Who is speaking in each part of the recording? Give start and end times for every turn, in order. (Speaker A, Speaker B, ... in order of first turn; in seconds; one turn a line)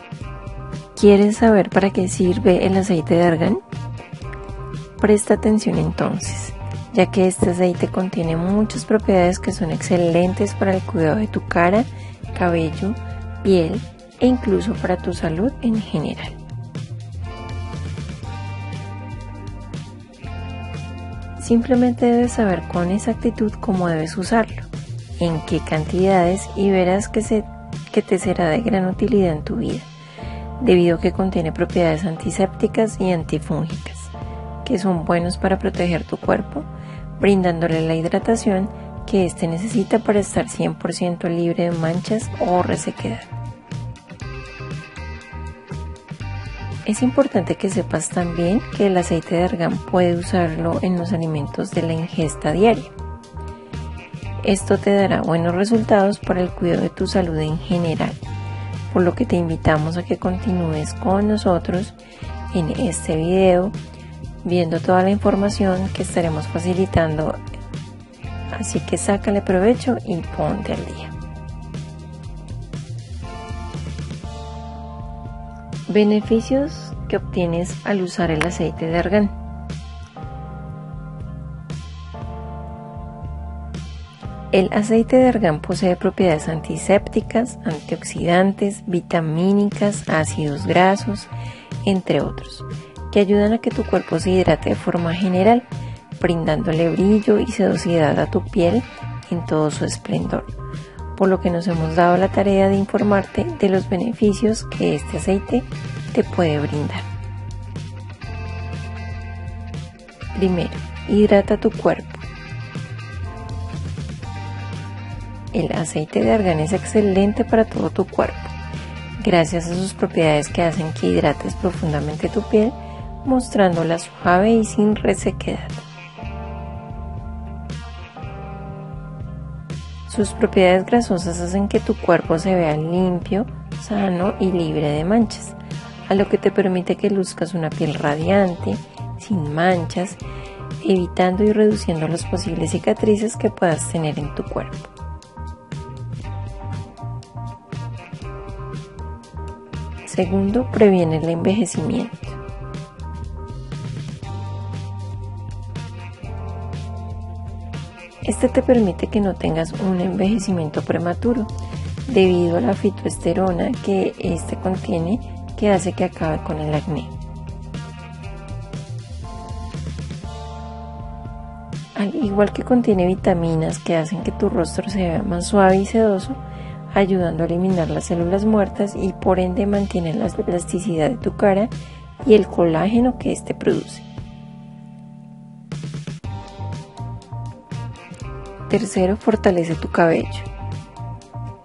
Speaker A: 1.0-3.6
Speaker A: 5.0-16.4
Speaker A: 21.4-29.9
Speaker A: 30.6-43.3
Speaker A: 46.9-52.9
Speaker A: 54.4-58.2
Speaker A: 58.9-62.0
Speaker A: 62.5-63.8
Speaker A: 64.4-67.4
Speaker A: 68.5-71.2
Speaker A: 75.9-79.3
Speaker A: 84.5-91.3
Speaker A: 91.8-100.5
Speaker A: 101.2-107.1
Speaker A: 110.3-112.3
Speaker A: 115.5-118.5
Speaker A: 119.2-125.9
Speaker A: 130.1-140.2
Speaker A: 140.8-144.9
Speaker A: 150.0-152.4
Speaker A: 158.2-161.5
Speaker A: 162.1-167.1
Speaker A: 171.9-181.7
Speaker A: 182.2-184.1
Speaker A: 188.7-190.5